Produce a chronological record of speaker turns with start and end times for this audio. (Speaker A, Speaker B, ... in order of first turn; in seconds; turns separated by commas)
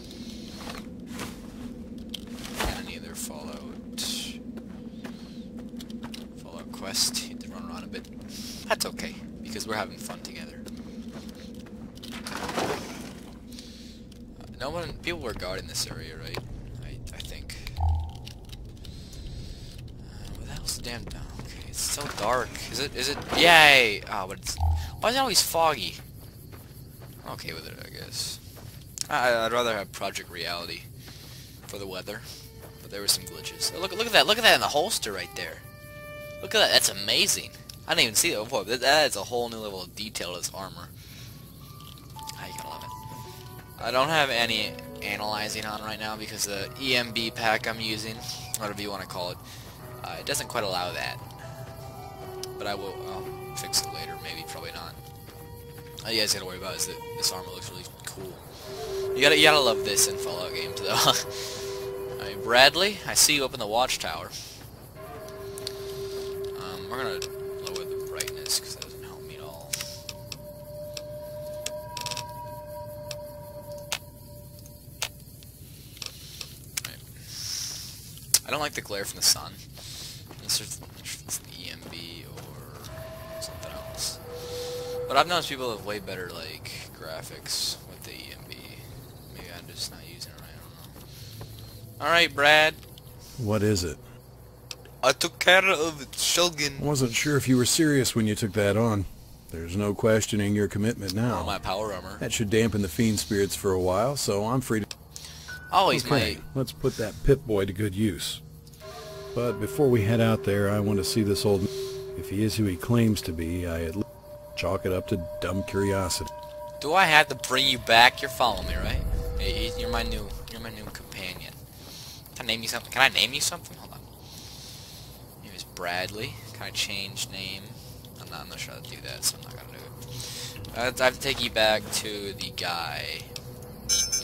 Speaker A: 2.6-4.4, Speaker A: 6.4-10.6, Speaker A: 14.4-17.8, Speaker A: 20.0-26.0, Speaker A: 27.2-28.4, Speaker A: 29.1-30.9, Speaker A: 31.7-32.3, Speaker A: 32.8-35.6, Speaker A: 36.4-40.9, Speaker A: 42.4-42.9, Speaker A: 43.8-49.4, Speaker A: 50.0-51.2, Speaker A: 52.6-55.0, Speaker A: 56.0-58.5, Speaker A: 59.1-64.4, Speaker A: 66.5-69.8, Speaker A: 76.8-77.8, Speaker A: 78.4-79.6, Speaker A: 80.4-84.2, Speaker A: 85.1-91.0, Speaker A: 92.0-92.8, Speaker B: 93.4-94.0, Speaker A: 95.0-96.9, Speaker B: 96.8-101.6, Speaker A: 101.2-102.2, Speaker B: 102.2-104.9, Speaker A: 105.7-106.4, Speaker B: 105.9-108.4, Speaker B: 109.3-116.3, Speaker A: 116.8-121.6, Speaker A: 122.3-124.0, Speaker A: 125.4-133.3